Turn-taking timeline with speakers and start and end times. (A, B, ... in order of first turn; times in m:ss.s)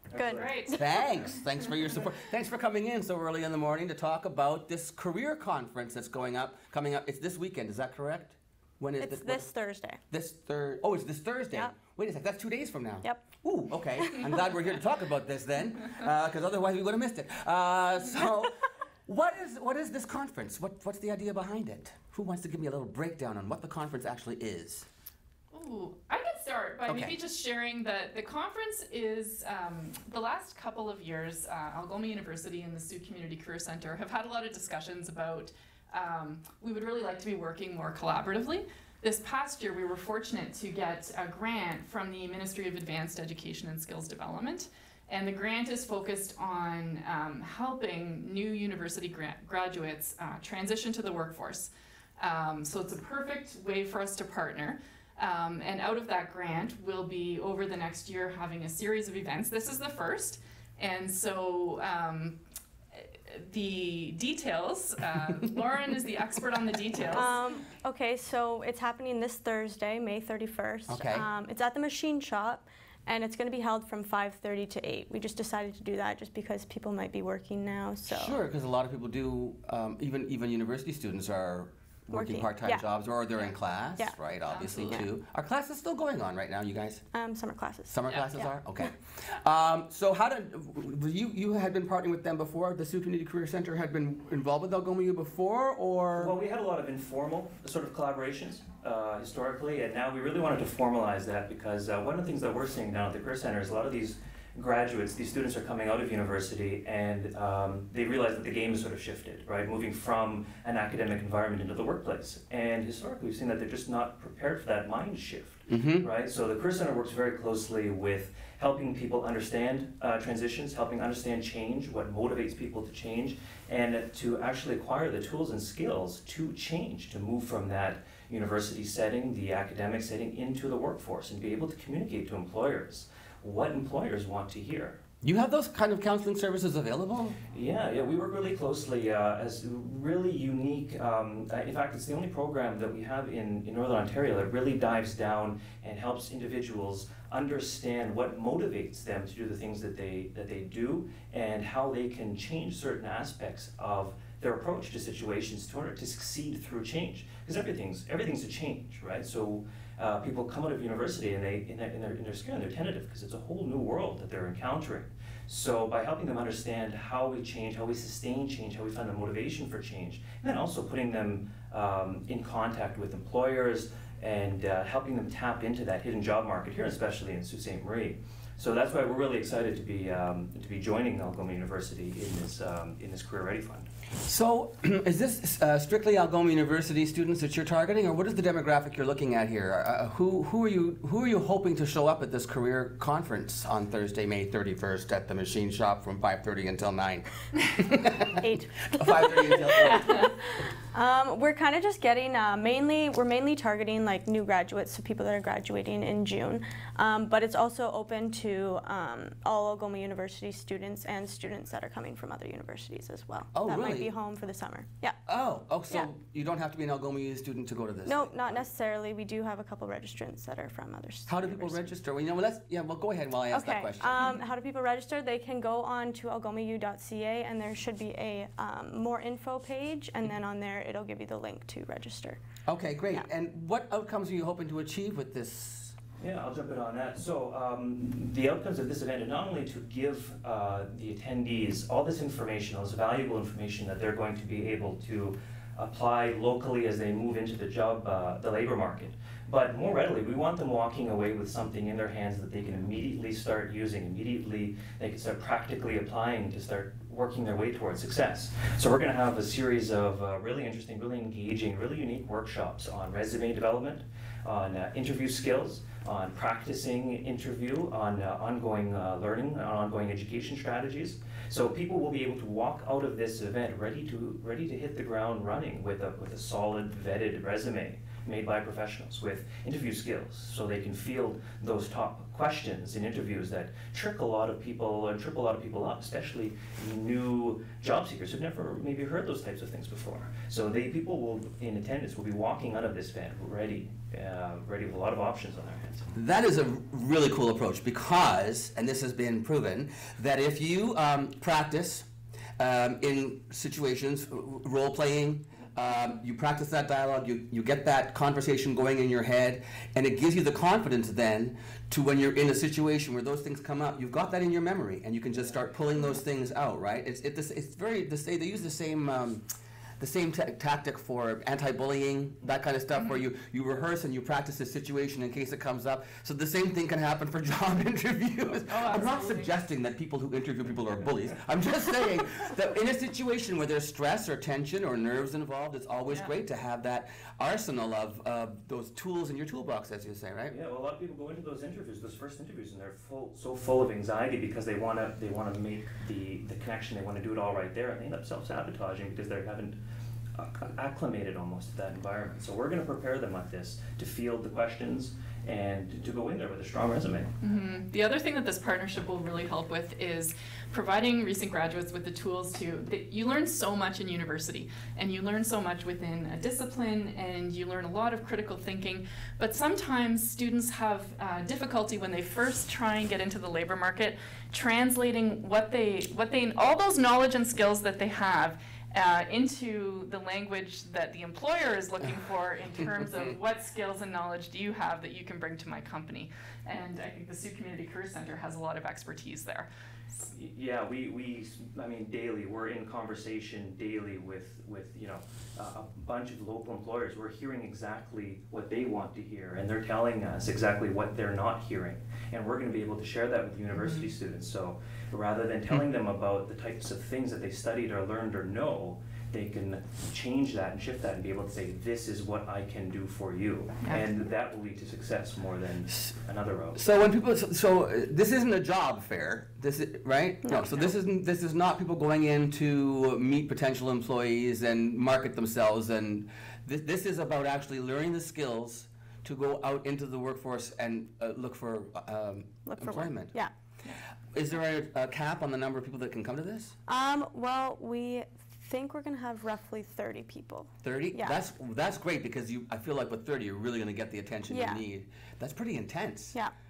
0:00.1-0:00.5 A
0:00.1-0:01.1 B
0:00.3-0:01.8 C
0:00.7-0:09.5 D
0:09.0-0:10.0 B
0:10.1-0:24.9 D
0:13.0-0:13.3 B
0:14.0-0:14.3 B
0:25.5-1:02.4 C
0:26.9-0:27.2 D
1:02.9-1:07.4 C
1:07.1-1:18.4 B
1:10.9-1:11.3 D
1:18.1-1:27.0 D
1:22.1-1:22.9 B
1:24.5-1:25.0 C
1:24.8-1:25.1 B
1:27.1-1:28.8 B
1:27.9-1:36.3 D
1:36.2-2:15.0 A
1:55.7-1:56.1 D
2:15.2-2:17.4 D
2:17.5-3:03.9 A
3:04.2-3:18.4 D
3:18.4-3:20.3 B
3:18.9-3:20.3 D
3:20.9-3:35.2 B
3:33.5-3:34.1 D
3:35.2-3:38.6 D
3:38.1-3:41.9 B
3:41.3-3:44.3 D
3:43.5-3:52.4 B
3:52.6-3:56.0 D
3:56.2-4:56.1 A
4:56.1-5:02.1 D
5:02.6-5:19.4 D
5:20.0-5:40.6 D
5:22.9-5:23.2 C
5:28.6-5:29.5 C
5:36.1-5:36.3 C
5:40.5-5:49.8 A
5:50.3-5:57.3 A
5:57.4-6:30.3 C
6:30.3-6:56.8 A
6:43.7-6:44.1 C
6:53.8-6:54.1 C
6:56.8-7:13.4 D
7:00.4-7:00.8 B
7:12.6-7:13.5 B
7:14.3-7:16.8 D
7:16.9-7:21.4 B
7:20.8-7:26.4 D
7:24.5-7:24.8 B